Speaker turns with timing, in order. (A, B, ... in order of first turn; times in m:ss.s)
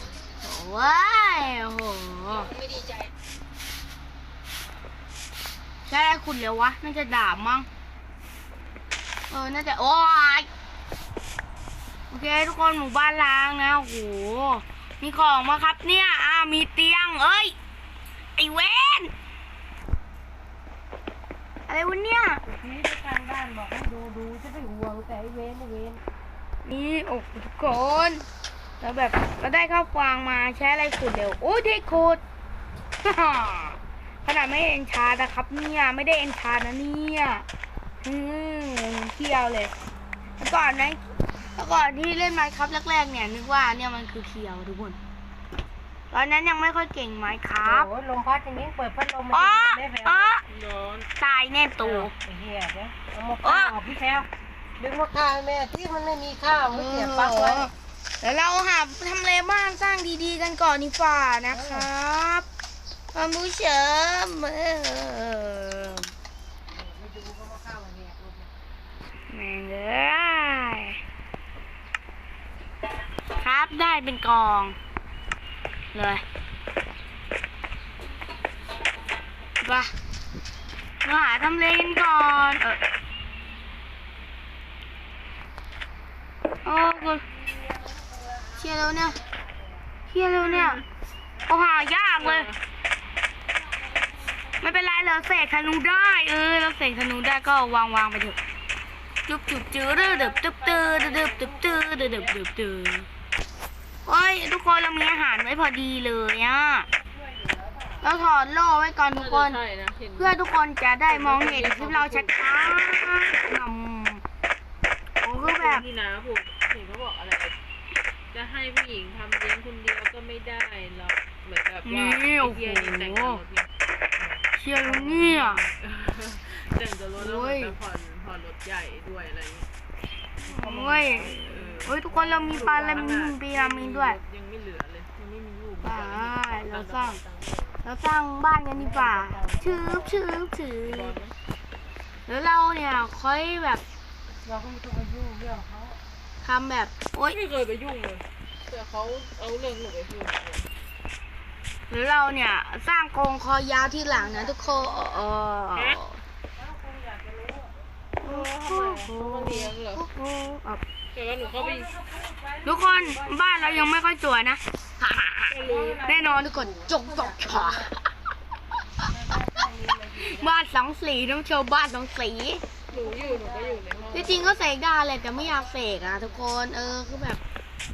0:00.4-0:02.5 A
0:05.9-0:07.7 A
0:09.3-0:10.5 A
0:12.1-0:17.6 A
0:18.4-0:19.1 A
0:21.7-0:22.4 A
0:22.4-0:26.0 B
0:26.6-0:28.3 A
0:28.8-0:32.2 A
0:33.0-0:37.5 A
0:38.0-0:39.7 A
0:40.4-0:41.0 A
0:41.6-0:45.0 A
0:46.1-0:47.9 A
0:47.6-0:50.3 B
0:49.3-0:50.4 A
0:50.5-0:51.1 C
0:51.2-0:52.1 A
0:51.8-0:57.7 B
0:53.4-0:53.8 A
0:56.7-1:02.5 A
1:01.5-1:01.9 B
1:03.1-1:06.1 A
1:06.7-1:08.5 B
1:09.3-1:11.0 A
1:13.4-1:14.8 A
1:15.9-1:16.2 A
1:19.6-1:19.9 A
1:21.0-1:22.8 A
1:26.6-1:27.3 A
1:27.4-1:29.9 B
1:28.6-1:29.2 A
1:30.1-1:30.8 A
1:30.4-1:30.9 C
1:31.5-1:32.5 A
1:32.2-1:32.6 C
1:33.8-1:34.5 B
1:34.6-1:38.4 A
1:39.3-1:43.1 A
1:40.1-1:42.4 B
1:44.1-1:46.9 A
1:47.0-1:48.0 B
1:48.0-1:49.6 A
1:49.1-1:50.4 C
1:50.2-1:54.2 A
1:51.1-1:52.4 C
1:55.2-1:55.8 A
1:55.4-1:57.6 C
1:58.3-2:09.7 C
2:01.8-2:03.4 A
2:04.6-2:05.6 A
2:07.2-2:07.8 A
2:10.4-2:14.2 A
2:10.5-2:11.4 B
2:11.0-2:17.8 C
2:12.6-2:13.2 B
2:15.8-2:17.2 A
2:17.8-2:21.2 A
2:18.8-2:20.2 B
2:20.9-2:21.3 C
2:22.3-2:23.8 A
2:24.4-2:26.0 B
2:26.4-2:27.4 A
2:27.3-2:30.7 C
2:31.9-2:36.2 A
2:34.1-2:35.1 B
2:35.7-2:36.0 C
2:36.6-2:37.7 B
2:38.2-2:40.0 C
2:38.2-2:40.8 A
2:41.1-2:42.0 C
2:41.4-2:43.9 B
2:42.6-2:48.0 A
2:45.5-2:46.1 C
2:45.6-2:47.9 B
2:49.1-2:50.5 B
2:50.2-2:52.6 A
2:52.9-2:54.6 C
2:52.9-2:54.5 B
2:54.1-2:57.4 A